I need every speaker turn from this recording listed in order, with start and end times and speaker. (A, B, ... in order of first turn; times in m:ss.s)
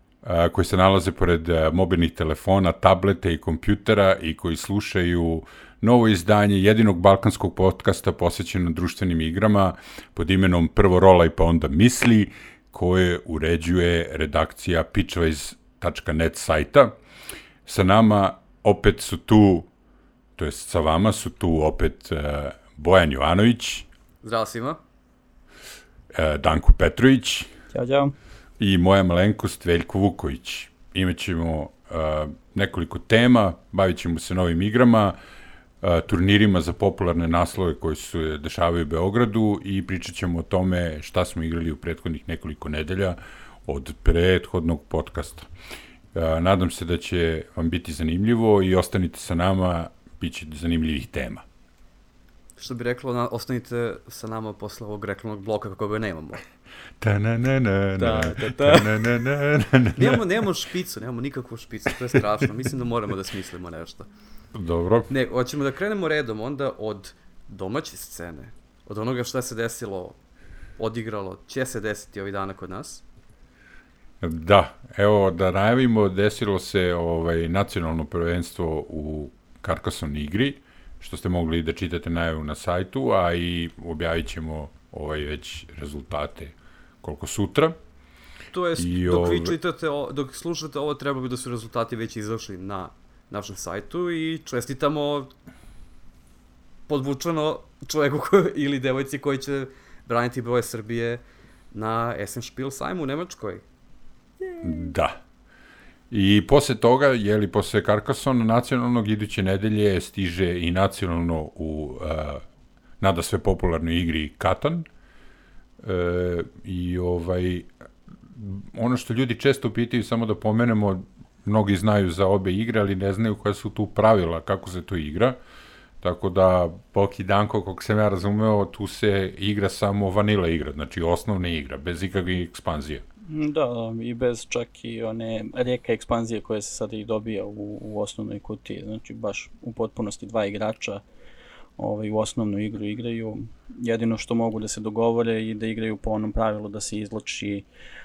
0:00.2-0:17.0 A
0:17.7-0:19.7 A
0:20.4-0:23.9 A
0:24.2-0:24.8 B
0:26.1-0:27.5 A
0:27.7-0:28.1 C
0:28.6-0:35.2 A
0:35.8-0:45.5 A
0:46.1-0:51.4 A
0:52.6-0:56.4 B
0:57.0-1:00.3 A
0:58.0-0:59.1 B
1:00.0-1:04.1 B
1:04.6-1:05.1 A
1:05.1-1:10.2 B
1:10.8-1:13.0 B
1:14.2-1:27.8 A
1:28.5-1:35.3 B
1:28.8-1:29.6 A
1:36.9-1:43.6 B
1:44.4-1:44.9 B
1:44.6-1:45.2 A
1:46.1-1:52.4 A
1:53.0-1:54.9 A
1:55.8-1:57.7 A
1:58.3-2:05.4 A
2:06.0-2:13.0 A
2:13.3-2:21.0 C
2:21.8-2:27.7 C